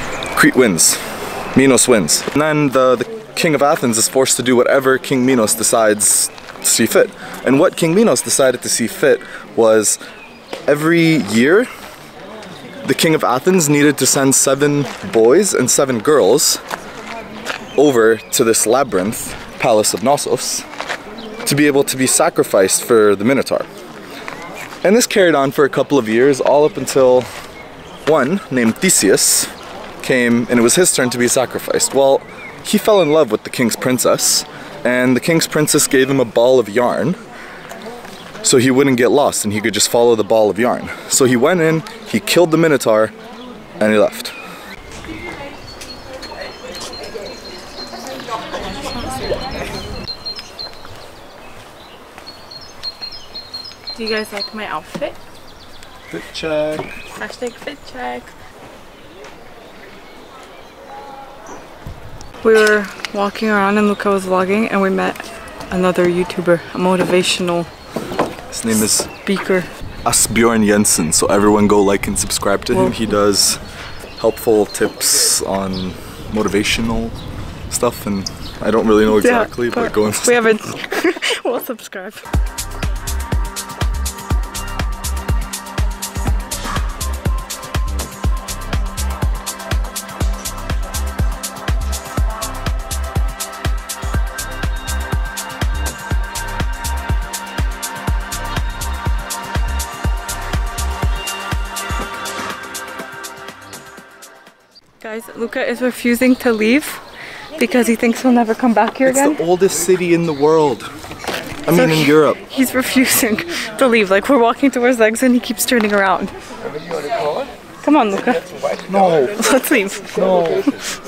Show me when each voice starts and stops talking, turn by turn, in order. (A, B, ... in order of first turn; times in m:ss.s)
0:00.3-0:01.0 A
0:01.5-0:10.0 A
0:10.6-0:11.7 A
0:12.8-0:16.6 A
0:17.8-0:20.7 A
0:21.4-0:23.7 A
0:24.8-0:27.3 A
0:28.0-0:37.2 A
0:38.4-0:43.1 A
0:43.8-0:44.3 A
0:48.8-0:49.3 B
0:53.9-0:55.2 B
0:56.1-0:56.9 A
0:57.1-0:58.3 B
1:02.4-1:07.7 B
1:08.5-1:09.1 A
1:09.2-1:09.7 B
1:10.0-1:13.6 A
1:12.7-1:13.0 B
1:14.2-1:17.2 A
1:17.7-1:20.4 A
1:19.1-1:22.2 B
1:45.0-1:47.0 B
1:47.6-1:49.4 B
1:49.0-1:50.9 A
1:51.6-1:52.4 A
1:51.7-1:56.3 B
1:57.8-1:58.5 B
1:58.9-1:59.4 A
1:59.3-2:00.7 B
2:00.1-2:00.7 A